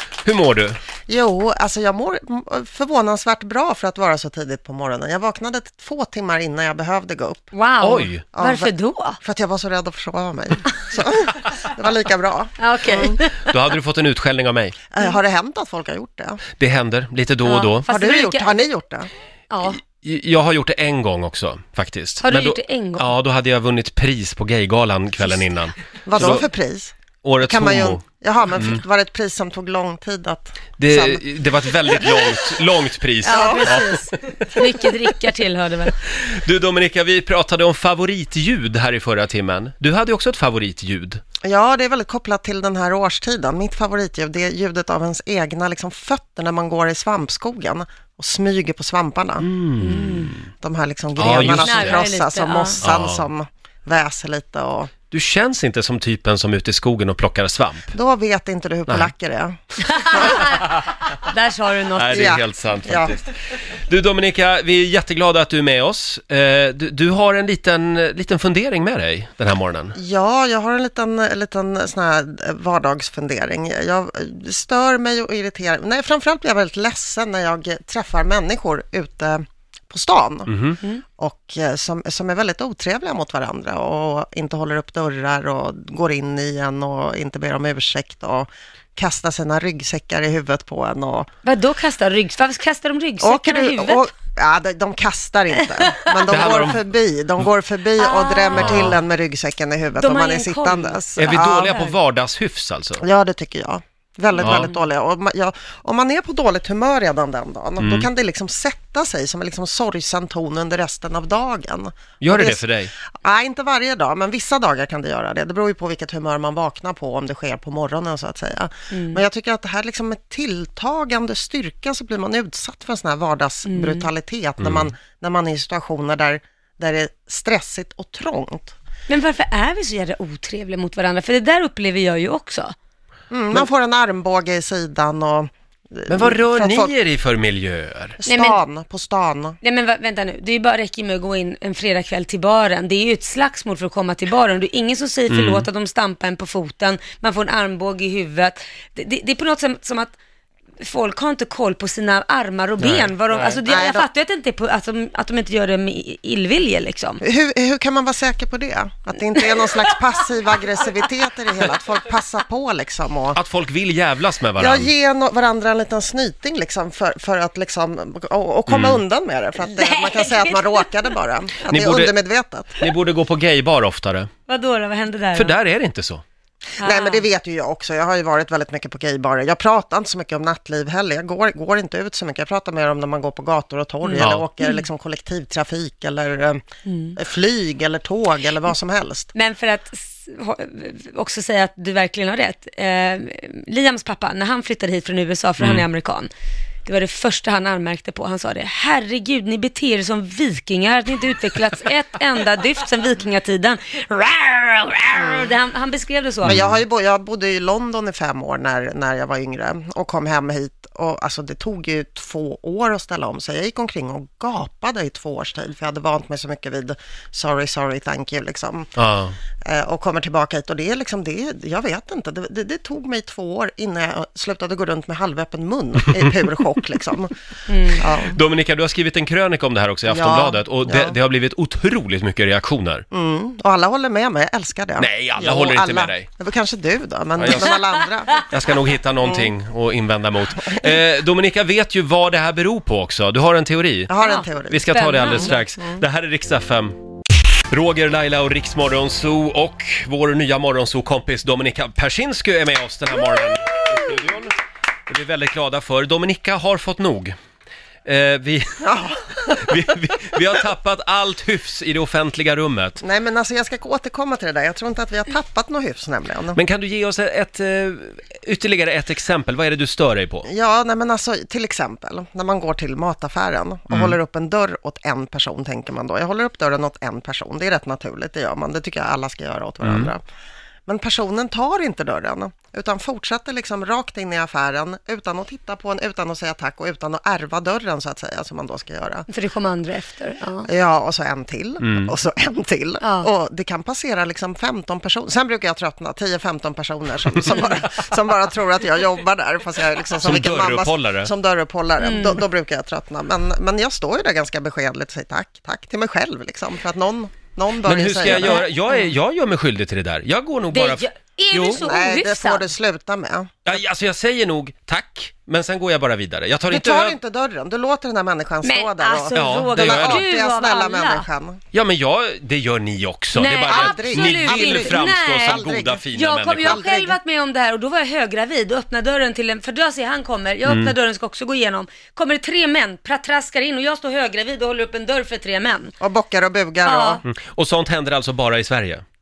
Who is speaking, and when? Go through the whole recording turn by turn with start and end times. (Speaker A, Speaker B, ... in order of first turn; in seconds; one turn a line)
Speaker A: 0.2-0.8
Speaker B: 1.1-7.5
Speaker C: 7.5-9.2
Speaker A: 7.8-8.3
Speaker B: 8.3-13.2
Speaker C: 12.6-13.5
Speaker A: 13.4-14.8
Speaker B: 14.9-16.4
Speaker A: 16.6-17.9
Speaker C: 17.4-18.6
Speaker B: 17.9-19.1
Speaker C: 19.5-19.8
Speaker A: 19.8-26.4
Speaker C: 22.2-23.1
Speaker B: 26.0-31.2
Speaker A: 27.2-28.8
Speaker A: 30.8-34.0
Speaker B: 32.1-32.4
Speaker B: 33.2-33.8
Speaker C: 33.2-36.0
Speaker A: 36.0-41.2
Speaker B: 41.4-49.5
Speaker A: 49.4-50.4
Speaker C: 49.8-50.3
Speaker B: 50.6-54.9
Speaker A: 51.1-52.0
Speaker C: 51.6-52.8
Speaker A: 52.8-53.2
Speaker A: 55.1-57.9
Speaker B: 57.9-60.4
Speaker A: 58.9-59.1
Speaker C: 59.8-62.3
Speaker A: 61.9-63.3
Speaker B: 62.1-63.1
Speaker A: 63.9-70.0
Speaker B: 69.9-80.5
Speaker A: 80.5-80.8
Speaker B: 81.2-91.3
Speaker C: 91.4-94.1
Speaker B: 93.2-101.7
Speaker C: 95.9-96.3
Speaker A: 96.3-96.8
Speaker C: 98.0-98.8
Speaker A: 98.5-99.0
Speaker C: 99.9-102.0
Speaker A: 101.2-103.0
Speaker B: 103.0-112.6
Speaker A: 104.4-104.7
Speaker C: 104.4-104.8
Speaker A: 107.8-108.1
Speaker A: 112.2-112.9
Speaker B: 113.1-128.7
Speaker C: 118.9-119.2
Speaker C: 123.6-124.1
Speaker A: 124.6-124.9
Speaker C: 129.1-132.7
Speaker B: 133.3-136.9
Speaker A: 136.1-138.2
Speaker B: 138.2-139.6
Speaker C: 138.2-138.6
Speaker C: 139.6-150.2
Speaker A: 145.3-145.7
Speaker C: 150.8-157.2
Speaker A: 152.8-153.6
Speaker B: 153.6-154.1
Speaker B: 157.2-163.4
Speaker A: 163.3-164.9
Speaker B: 164.6-172.8
Speaker A: 168.7-169.0
Speaker C: 169.7-170.9
Speaker A: 171.6-172.1
Speaker A: 172.8-174.3
Speaker C: 174.5-175.5
Speaker A: 175.3-176.2
Speaker C: 176.8-177.2
Speaker B: 176.8-186.6
Speaker C: 184.0-184.8
Speaker A: 184.2-184.4
Speaker C: 186.8-187.2
Speaker B: 187.2-189.3
Speaker C: 189.3-196.3
Speaker A: 195.6-195.8
Speaker C: 196.8-206.6
Speaker B: 205.2-205.4
Speaker A: 206.4-206.8
Speaker B: 206.4-218.9
Speaker A: 218.9-219.3
Speaker B: 219.6-227.3
Speaker C: 227.7-228.1
Speaker B: 227.9-228.4
Speaker A: 228.2-233.0
Speaker B: 230.1-231.2
Speaker B: 233.1-238.4
Speaker A: 235.0-236.3
Speaker A: 237.4-237.8
Speaker A: 238.4-244.1
Speaker B: 244.1-246.0
Speaker C: 244.2-245.6
Speaker A: 244.7-246.9
Speaker A: 247.7-257.3
Speaker A: 258.1-258.9
Speaker B: 258.8-259.8
Speaker A: 259.5-263.0
Speaker B: 263.0-266.6
Speaker A: 266.5-270.5
Speaker B: 270.4-280.2
Speaker A: 273.9-274.2
Speaker A: 279.8-280.1
Speaker B: 280.9-289.3
Speaker C: 289.3-290.7
Speaker B: 290.7-308.6
Speaker A: 291.8-292.1
Speaker C: 293.0-293.3
Speaker A: 300.2-301.3
Speaker C: 302.0-302.4
Speaker A: 307.8-311.8
Speaker C: 308.3-309.1
Speaker C: 310.7-312.7
Speaker B: 311.7-313.5
Speaker A: 313.6-317.2
Speaker B: 316.7-321.6
Speaker C: 318.6-321.2
Speaker A: 319.3-320.2
Speaker A: 321.7-326.9
Speaker C: 323.3-325.6
Speaker B: 323.7-327.2
Speaker C: 326.1-335.9
Speaker A: 330.6-330.9
Speaker B: 336.0-337.2
Speaker C: 336.8-337.2
Speaker A: 337.2-339.0